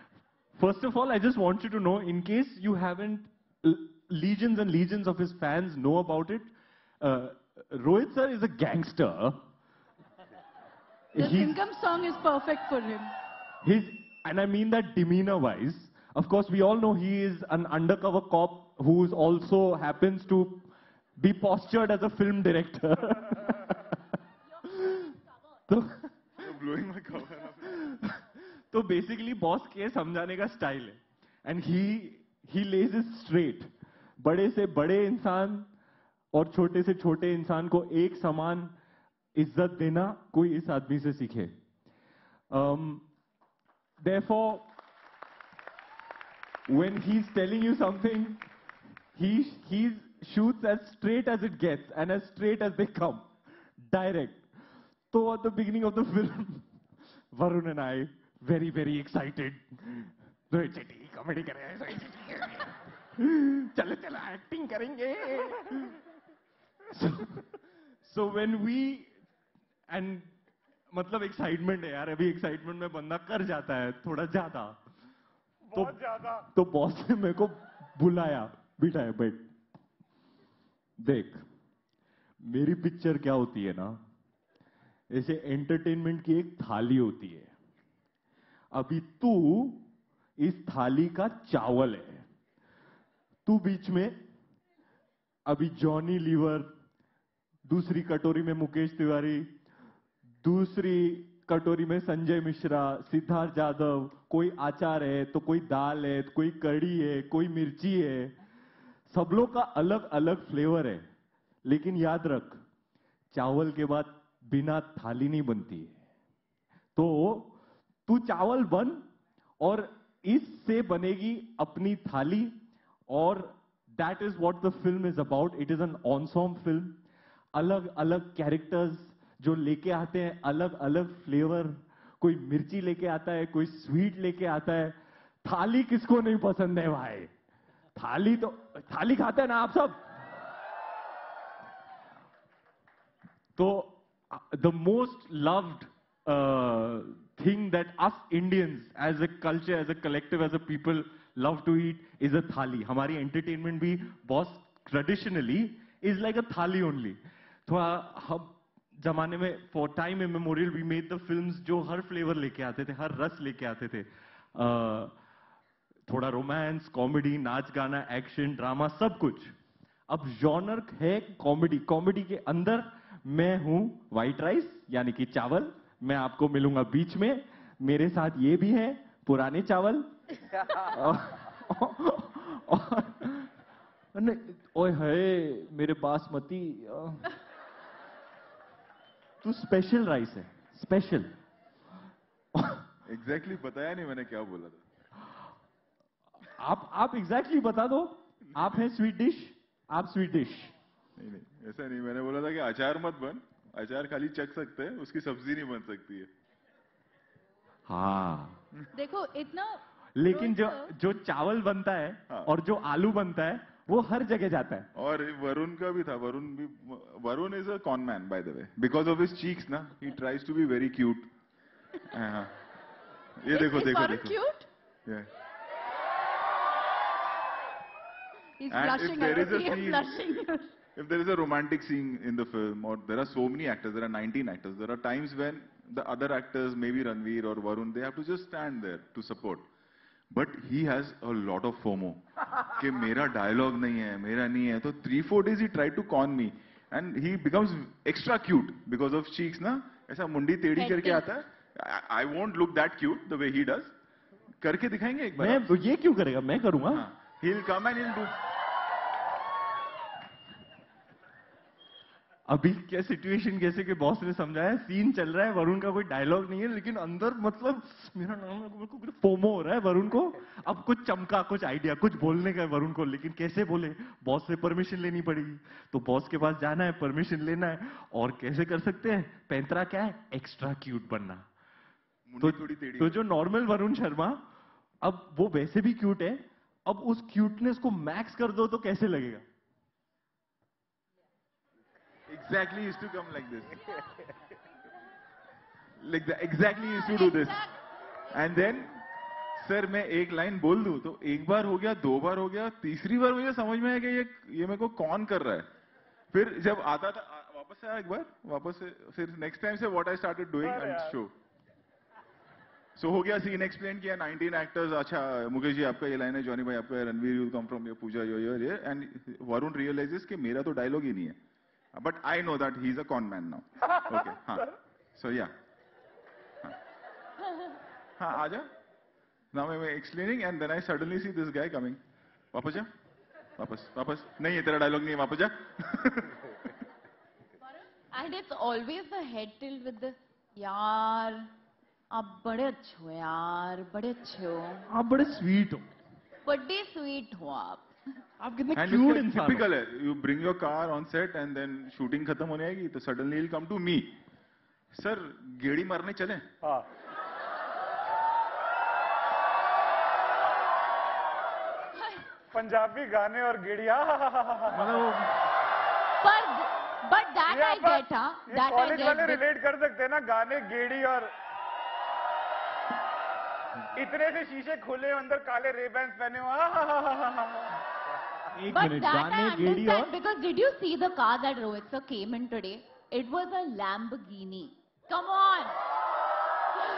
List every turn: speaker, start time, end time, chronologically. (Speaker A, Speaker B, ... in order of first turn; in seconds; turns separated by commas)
Speaker A: 0.6-6.5, Speaker A: 7.0-9.4, Speaker A: 11.1-11.6, Speaker B: 11.2-13.1, Speaker A: 13.6-24.0, Speaker A: 24.6-25.1, Speaker A: 25.7-26.1, Speaker C: 26.4-27.9, Speaker A: 28.7-35.7, Speaker A: 36.3-38.7, Speaker A: 39.4-41.5, Speaker A: 42.5-43.0, Speaker A: 44.0-44.6, Speaker A: 46.7-48.4, Speaker A: 49.1-53.3, Speaker A: 53.9-54.4, Speaker A: 55.1-56.6, Speaker A: 57.3-66.0, Speaker A: 66.9-67.5, Speaker A: 68.0-69.1, Speaker A: 69.9-70.3, Speaker A: 70.9-74.8, Speaker D: 75.7-76.5, Speaker A: 75.7-79.5, Speaker A: 81.0-81.4, Speaker A: 82.4-84.0, Speaker A: 85.1-87.5, Speaker A: 88.7-89.8, Speaker A: 90.4-92.2, Speaker A: 93.5-94.2, Speaker A: 95.5-96.7, Speaker A: 97.7-99.5, Speaker A: 100.4-108.3, Speaker A: 109.1-111.0, Speaker A: 111.7-112.6, Speaker A: 113.3-115.9, Speaker A: 117.0-117.5, Speaker A: 118.1-119.0, Speaker A: 119.6-122.6, Speaker A: 123.1-127.0, Speaker A: 127.5-137.3, Speaker A: 137.9-140.0, Speaker A: 143.6-165.1, Speaker A: 166.1-169.5, Speaker A: 170.1-180.1, Speaker A: 180.7-183.5, Speaker A: 184.2-187.3, Speaker A: 189.4-191.3, Speaker A: 192.5-192.8, Speaker C: 193.1-194.8, Speaker A: 196.6-200.7, Speaker C: 201.2-206.3, Speaker A: 207.9-208.6, Speaker B: 208.9-210.9, Speaker A: 210.2-214.9, Speaker C: 214.9-221.3, Speaker C: 222.1-222.5, Speaker C: 223.4-224.4, Speaker B: 223.5-224.7, Speaker B: 228.6-230.7, Speaker C: 228.7-230.1, Speaker C: 230.9-239.7, Speaker C: 240.3-253.9, Speaker E: 250.7-251.2, Speaker C: 254.6-255.7, Speaker A: 255.4-257.1, Speaker C: 256.9-258.4, Speaker A: 262.5-281.4, Speaker C: 282.3-283.2, Speaker A: 282.4-284.4, Speaker A: 285.0-289.4, Speaker C: 292.3-293.9, Speaker C: 296.0-297.7, Speaker E: 297.1-297.4, Speaker C: 298.3-299.0, Speaker C: 299.5-305.7, Speaker C: 306.3-311.3, Speaker D: 310.6-311.1, Speaker C: 313.0-321.4, Speaker C: 321.9-325.5, Speaker C: 328.2-328.7, Speaker C: 329.5-332.0, Speaker C: 332.5-332.9, Speaker C: 333.6-336.7, Speaker E: 338.1-341.5, Speaker E: 342.1-344.8, Speaker A: 344.9-345.9, Speaker E: 346.4-347.9, Speaker A: 348.4-349.7, Speaker C: 348.7-354.1, Speaker C: 354.9-356.4, Speaker E: 361.9-362.3, Speaker D: 362.5-364.9, Speaker C: 364.7-365.4, Speaker E: 366.2-369.4, Speaker D: 367.5-371.3, Speaker D: 373.9-377.7, Speaker A: 378.5-380.1, Speaker E: 378.7-385.8